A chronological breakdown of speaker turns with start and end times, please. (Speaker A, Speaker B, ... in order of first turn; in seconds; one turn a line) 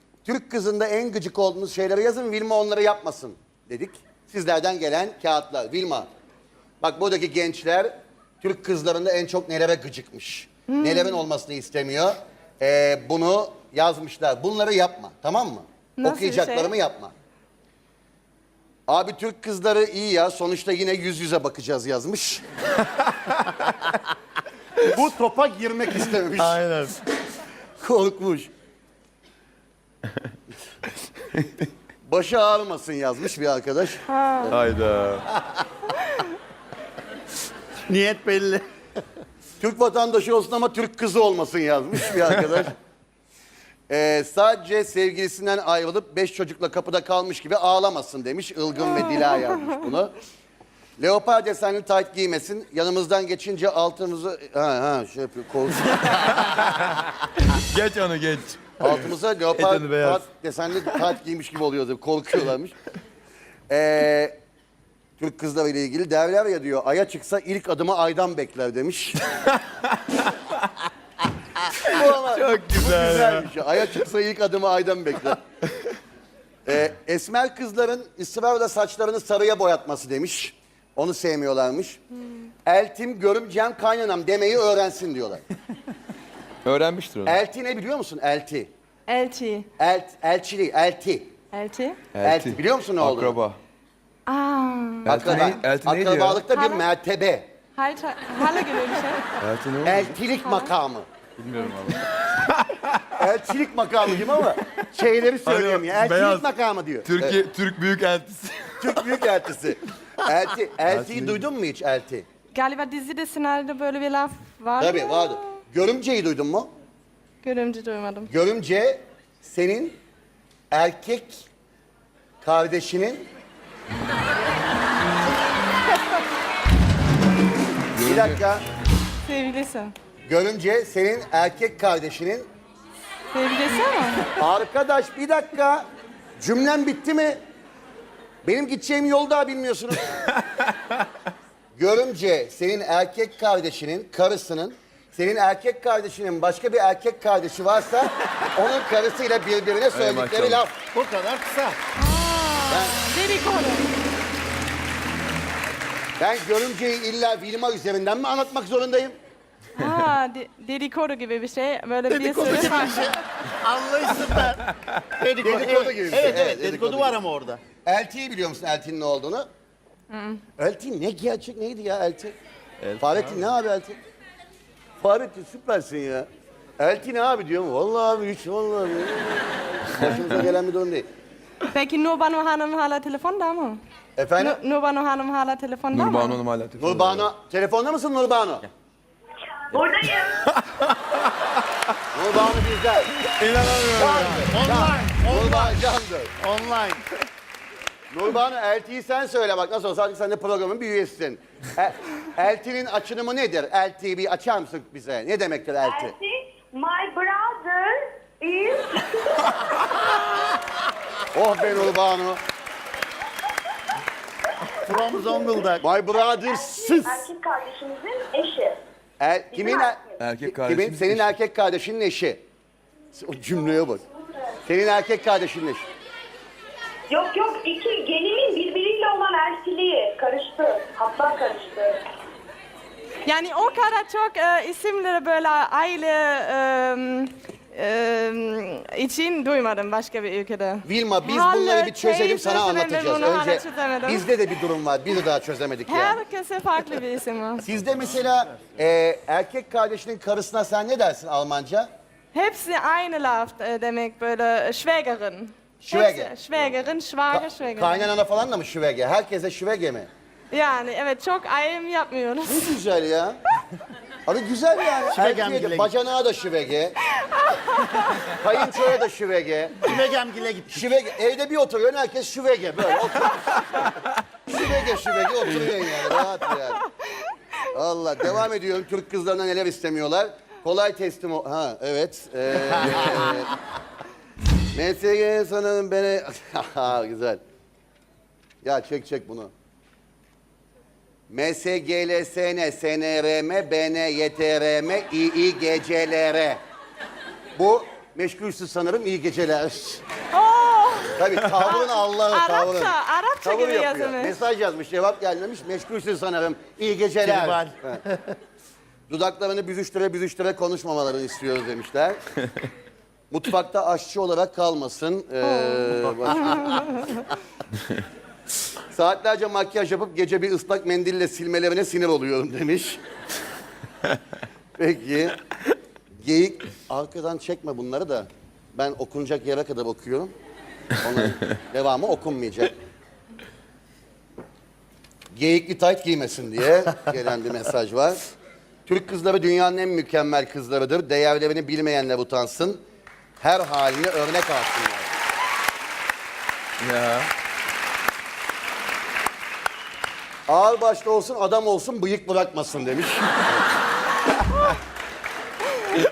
Speaker A: 0.2-6.1
Speaker A: 6.8-17.1
Speaker B: 10.7-11.2
Speaker B: 16.0-16.7
Speaker A: 18.9-22.4
Speaker A: 24.8-26.6
Speaker C: 26.4-27.0
Speaker A: 27.8-28.5
Speaker A: 32.0-34.6
Speaker B: 34.1-34.5
Speaker D: 34.5-35.3
Speaker C: 37.9-38.6
Speaker A: 39.6-42.7
Speaker A: 43.9-50.1
Speaker B: 49.0-49.5
Speaker A: 51.0-56.6
Speaker D: 56.3-60.2
Speaker A: 58.8-62.8
Speaker A: 63.7-64.3
Speaker A: 65.2-69.2
Speaker D: 69.4-70.3
Speaker D: 71.8-73.5
Speaker A: 71.8-75.4
Speaker D: 75.7-75.9
Speaker A: 76.7-82.0
Speaker A: 82.6-85.4
Speaker D: 86.6-87.3
Speaker A: 87.2-88.7
Speaker B: 89.1-89.7
Speaker A: 89.8-91.3
Speaker B: 91.5-92.0
Speaker D: 92.1-93.6
Speaker A: 92.2-93.4
Speaker B: 94.3-95.6
Speaker D: 95.0-96.4
Speaker A: 95.0-97.5
Speaker B: 96.5-96.8
Speaker B: 97.7-99.3
Speaker D: 99.4-100.1
Speaker A: 99.8-101.1
Speaker B: 100.4-100.7
Speaker D: 101.4-103.1
Speaker B: 101.6-101.9
Speaker A: 103.2-107.4
Speaker D: 105.4-106.5
Speaker D: 107.0-109.1
Speaker A: 108.8-112.2
Speaker D: 110.9-111.4
Speaker B: 112.5-115.5
Speaker A: 114.8-116.7
Speaker B: 117.4-118.3
Speaker A: 118.3-120.0
Speaker A: 120.7-121.5
Speaker A: 122.4-123.3
Speaker D: 127.9-128.4
Speaker A: 128.0-128.6
Speaker B: 129.2-129.9
Speaker A: 130.2-132.5
Speaker B: 133.3-134.3
Speaker A: 134.3-135.8
Speaker A: 136.4-137.4
Speaker A: 138.4-140.1
Speaker A: 141.7-150.7
Speaker D: 149.9-150.6
Speaker C: 150.9-151.8
Speaker B: 151.9-153.9
Speaker A: 152.7-153.0
Speaker A: 156.2-159.2
Speaker B: 159.8-163.1
Speaker C: 162.1-167.6
Speaker A: 165.4-167.2
Speaker A: 167.8-169.5
Speaker B: 170.1-170.4
Speaker A: 170.6-172.3
Speaker A: 173.0-174.0
Speaker A: 175.0-176.3
Speaker A: 176.8-181.1
Speaker B: 181.7-183.8
Speaker A: 184.2-184.6
Speaker B: 184.4-186.4
Speaker D: 185.9-187.3
Speaker A: 186.8-188.7
Speaker E: 189.5-190.3
Speaker D: 190.4-191.1
Speaker A: 192.1-193.2
Speaker D: 193.2-194.5
Speaker A: 193.9-196.3
Speaker C: 194.5-195.8
Speaker C: 196.4-197.0
Speaker A: 198.1-206.1
Speaker E: 205.8-209.7
Speaker A: 211.3-212.4
Speaker C: 214.7-215.8
Speaker A: 215.8-217.3
Speaker E: 216.2-218.8
Speaker A: 219.2-222.4
Speaker E: 219.5-220.0
Speaker D: 220.2-221.3
Speaker A: 223.1-224.0
Speaker A: 224.6-225.9
Speaker E: 227.1-232.0
Speaker B: 233.2-244.3
Speaker A: 240.8-246.2
Speaker B: 245.9-247.6
Speaker A: 247.6-251.9
Speaker B: 252.3-258.1
Speaker A: 255.8-256.7
Speaker A: 257.3-260.1
Speaker B: 260.5-262.6
Speaker A: 262.4-263.4
Speaker A: 264.2-267.0
Speaker C: 265.1-265.9
Speaker B: 267.3-268.2
Speaker A: 268.2-269.9
Speaker C: 269.8-270.8
Speaker A: 270.7-276.8
Speaker A: 277.7-283.5
Speaker A: 284.7-287.4
Speaker A: 288.6-289.5
Speaker A: 291.3-296.6
Speaker A: 297.6-300.0
Speaker B: 300.3-304.4
Speaker A: 301.1-308.0
Speaker C: 307.2-308.3
Speaker A: 309.1-312.2
Speaker A: 313.3-316.7
Speaker B: 315.4-315.9
Speaker B: 316.5-317.2
Speaker A: 318.9-323.0
Speaker A: 324.8-325.4
Speaker A: 326.1-330.3
Speaker A: 331.0-332.7
Speaker A: 335.3-338.2
Speaker A: 338.9-342.8
Speaker A: 343.4-345.1
Speaker D: 346.8-347.3
Speaker A: 350.5-353.6